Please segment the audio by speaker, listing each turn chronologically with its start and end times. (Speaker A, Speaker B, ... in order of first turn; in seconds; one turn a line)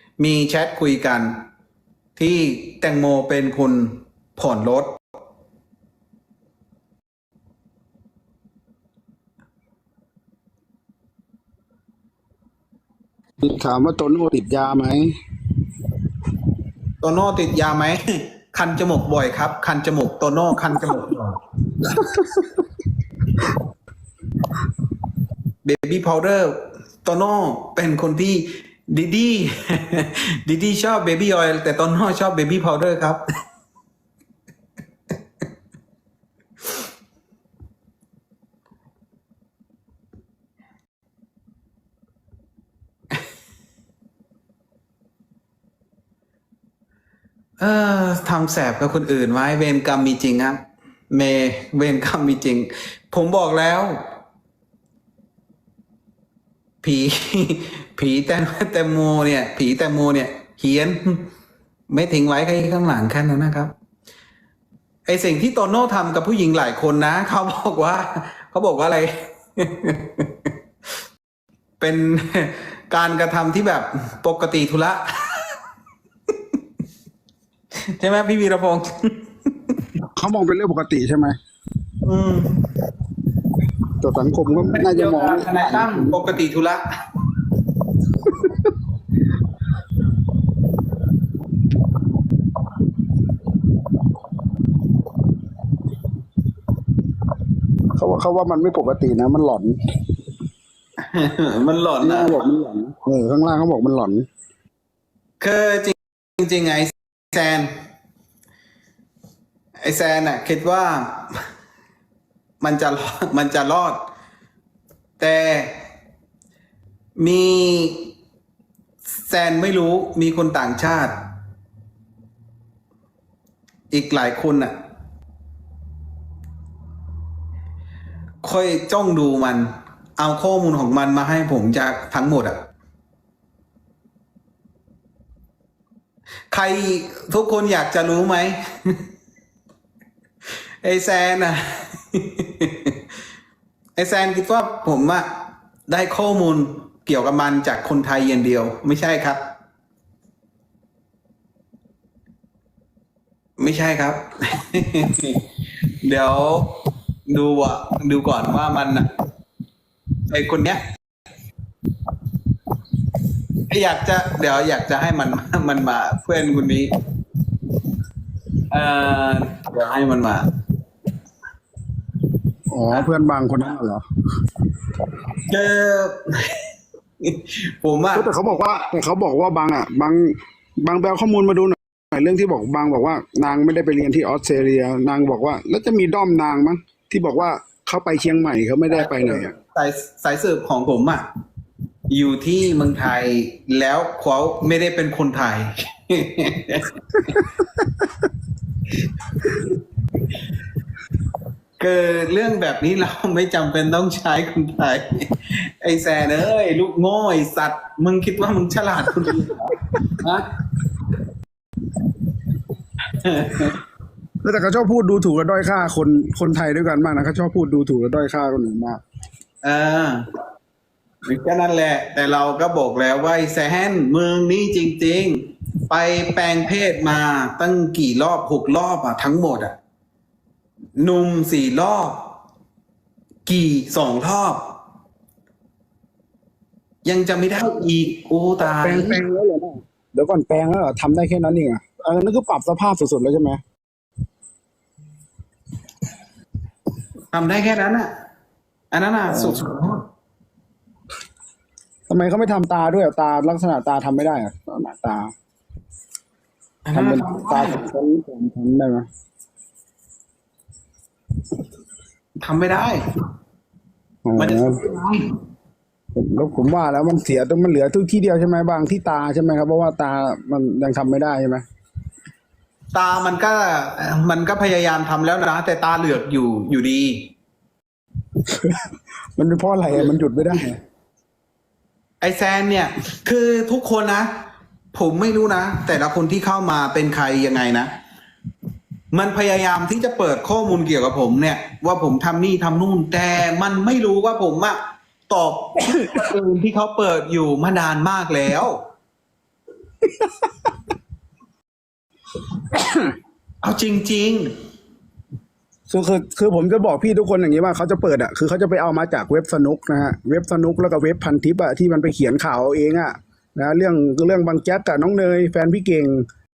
Speaker A: 0.2-1.4
Speaker A: 2.1-4.9
Speaker B: 13.4-15.1
Speaker A: 17.0-21.4
Speaker B: 21.8-22.5
Speaker A: 25.6-33.2
Speaker A: 47.6-54.0
Speaker A: 56.8-61.2
Speaker A: 61.9-63.7
Speaker A: 65.0-70.5
Speaker A: 71.8-75.6
Speaker A: 77.8-79.9
Speaker B: 80.2-81.4
Speaker A: 82.0-82.5
Speaker B: 84.0-86.2
Speaker A: 84.7-86.8
Speaker B: 88.2-88.7
Speaker B: 97.9-99.8
Speaker A: 101.0-102.5
Speaker B: 102.0-104.2
Speaker A: 105.4-107.7
Speaker A: 109.8-111.5
Speaker A: 112.6-114.0
Speaker A: 115.2-115.7
Speaker A: 117.2-118.1
Speaker A: 119.2-121.1
Speaker A: 123.9-124.7
Speaker A: 128.4-132.6
Speaker A: 136.5-139.0
Speaker A: 140.8-143.0
Speaker A: 144.0-145.3
Speaker A: 145.9-149.4
Speaker A: 153.6-155.4
Speaker A: 156.0-156.7
Speaker A: 157.3-159.1
Speaker A: 160.3-160.8
Speaker A: 163.7-166.9
Speaker A: 168.7-170.4
Speaker B: 172.7-174.0
Speaker A: 175.4-176.7
Speaker A: 177.2-178.3
Speaker B: 178.1-189.5
Speaker A: 189.0-191.2
Speaker A: 192.1-197.5
Speaker A: 199.4-199.7
Speaker A: 201.8-210.5
Speaker A: 213.1-213.8
Speaker B: 214.4-219.0
Speaker A: 219.6-220.2
Speaker A: 221.2-229.7
Speaker A: 231.0-232.2
Speaker A: 233.4-234.6
Speaker A: 237.0-239.2
Speaker B: 238.7-243.6
Speaker A: 247.3-248.1
Speaker A: 248.9-250.0
Speaker B: 249.3-249.6
Speaker B: 252.1-255.3
Speaker A: 256.9-257.8
Speaker B: 256.9-259.1
Speaker A: 262.4-263.0
Speaker B: 264.2-264.8
Speaker A: 264.4-265.3
Speaker B: 266.1-271.6
Speaker A: 272.9-277.3
Speaker B: 278.4-280.8
Speaker A: 282.2-284.3
Speaker A: 284.9-287.9
Speaker A: 289.1-294.8
Speaker A: 295.3-298.8
Speaker B: 302.7-303.1
Speaker A: 303.6-304.5
Speaker B: 305.9-316.2